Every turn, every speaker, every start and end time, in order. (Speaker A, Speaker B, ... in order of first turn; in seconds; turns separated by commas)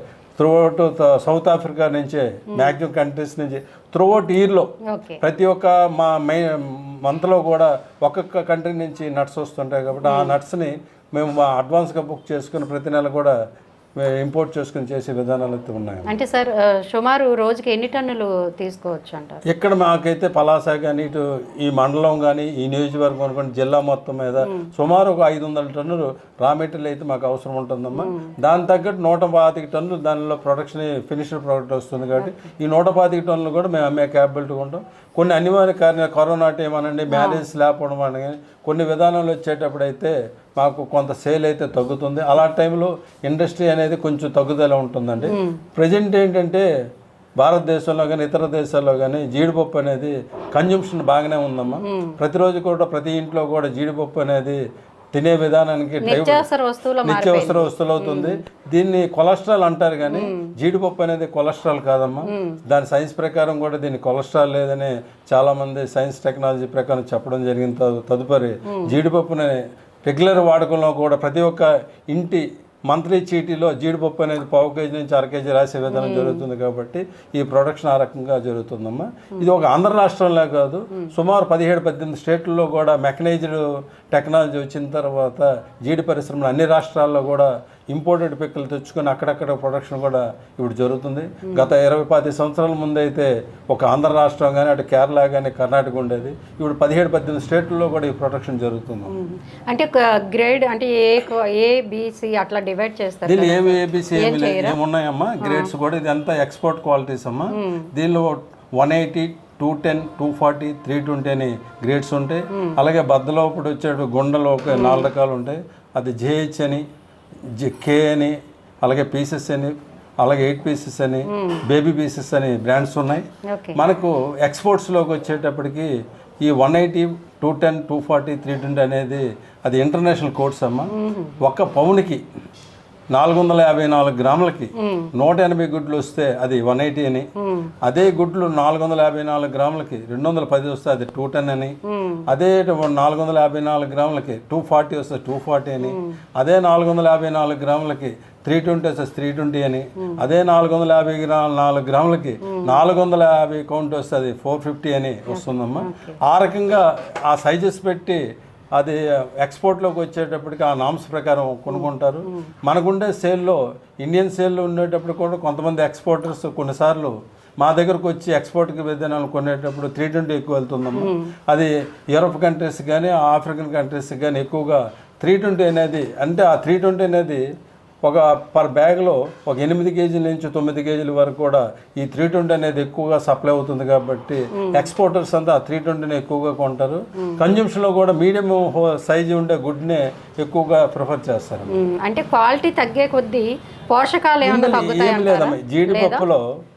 Speaker A: 0.4-13.3, Speaker B: 4.9-5.2, Speaker B: 10.0-10.3, Speaker A: 14.0-16.1, Speaker B: 16.1-19.4, Speaker A: 19.5-46.6, Speaker B: 27.9-28.3, Speaker B: 37.1-37.4, Speaker B: 45.2-45.6, Speaker A: 47.4-54.6, Speaker B: 51.8-52.2, Speaker A: 55.1-56.5, Speaker B: 56.0-58.4, Speaker A: 57.0-99.2, Speaker B: 60.0-60.5, Speaker B: 62.3-62.6, Speaker B: 68.7-68.9, Speaker B: 75.9-76.4, Speaker B: 99.1-104.8, Speaker A: 103.2-116.8, Speaker B: 105.4-105.7, Speaker B: 107.5-107.8, Speaker B: 114.7-115.1, Speaker A: 117.5-123.2, Speaker B: 121.3-121.6, Speaker B: 123.5-123.8, Speaker A: 123.8-132.2, Speaker B: 130.9-131.3, Speaker A: 133.1-137.3, Speaker B: 134.8-135.1, Speaker B: 137.4-137.7, Speaker A: 137.8-141.8, Speaker B: 141.8-142.2, Speaker A: 142.3-158.2, Speaker B: 145.8-146.2, Speaker B: 152.4-152.8, Speaker B: 155.3-156.2, Speaker A: 158.7-177.4, Speaker B: 161.7-162.5, Speaker B: 170.9-171.3, Speaker A: 178.0-191.7, Speaker B: 184.5-184.9, Speaker B: 191.7-196.2, Speaker A: 194.4-196.4